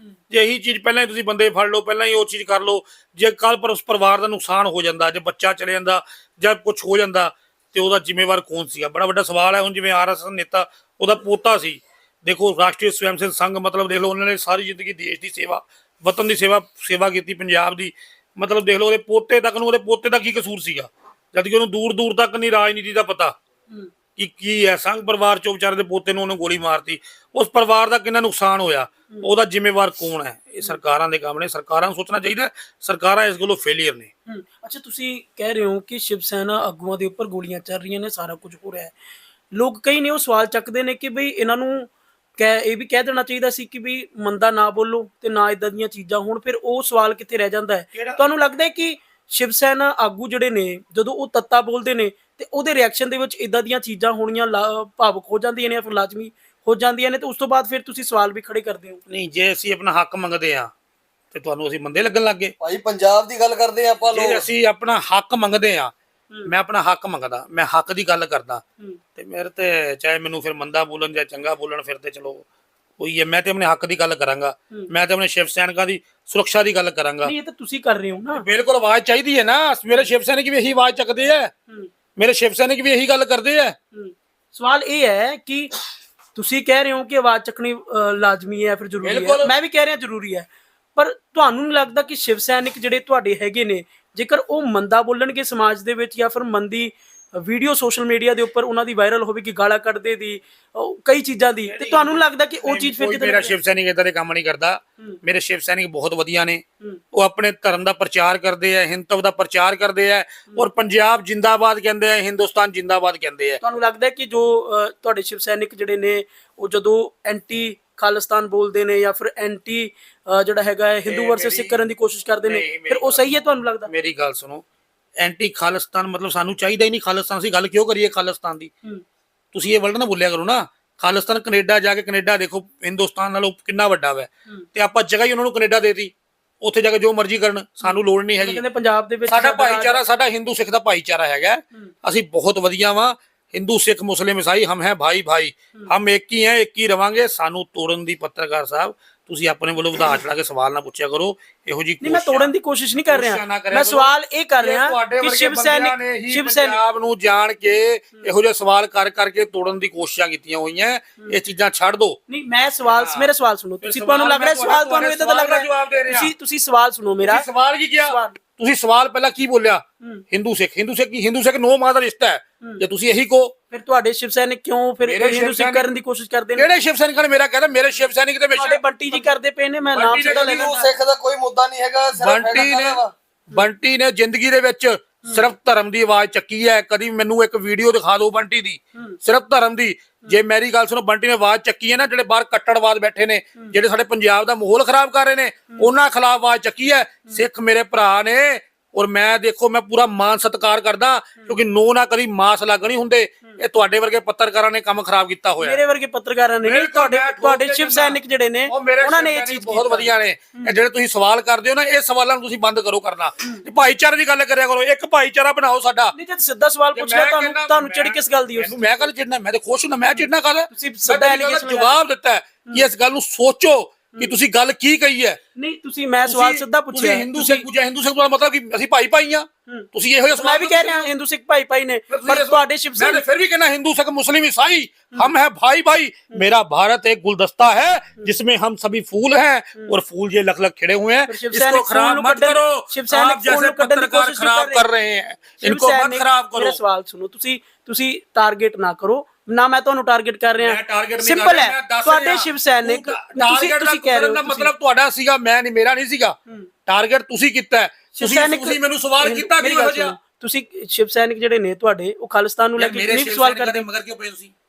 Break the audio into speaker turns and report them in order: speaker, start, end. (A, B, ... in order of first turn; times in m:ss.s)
0:00.3-0:23.3 A
0:24.2-0:34.1 A
0:34.3-0:38.9 B
0:39.5-0:59.0 B
0:47.9-0:48.2 A
0:59.1-1:00.7 A
1:01.3-1:02.5 A
1:02.6-1:04.4 C
1:04.0-1:05.9 A
1:06.4-1:08.6 A
1:09.2-1:12.4 A
1:13.0-1:17.3 A
1:17.2-1:18.4 B
1:18.3-1:21.5 A
1:22.2-1:23.8 A
1:23.9-1:25.7 B
1:26.3-1:43.5 B
1:29.0-1:29.5 A
1:41.7-1:46.6 A
1:47.1-1:53.6 A
1:53.6-2:03.9 B
2:01.1-2:01.8 A
2:02.4-2:03.3 A
2:03.8-2:04.6 A
2:05.2-2:08.7 A
2:09.5-2:18.6 A
2:17.8-2:20.0 B
2:19.3-2:32.5 A
2:32.0-2:36.8 B
2:33.1-2:42.2 A
2:42.3-2:47.4 B
2:42.8-2:43.3 A
2:43.8-2:46.3 A
2:47.2-2:53.5 A
2:48.0-2:48.4 B
2:53.7-2:56.7 B
2:55.0-2:55.9 A
2:56.6-2:58.8 A
2:58.6-3:00.8 B
2:59.9-3:00.9 A
3:00.2-3:03.1 C
3:02.2-3:25.8 A
3:25.6-3:30.7 B
3:26.6-3:36.1 A
3:36.1-3:39.1 B
3:36.9-3:45.4 A
3:40.7-3:42.0 B
3:45.6-3:47.7 B
3:46.2-3:51.1 A
3:49.7-3:53.2 B
3:52.1-4:06.8 A
4:01.3-4:04.8 B
4:05.6-4:14.7 B
4:10.6-4:20.2 A
4:18.1-4:23.8 B
4:22.8-4:24.5 A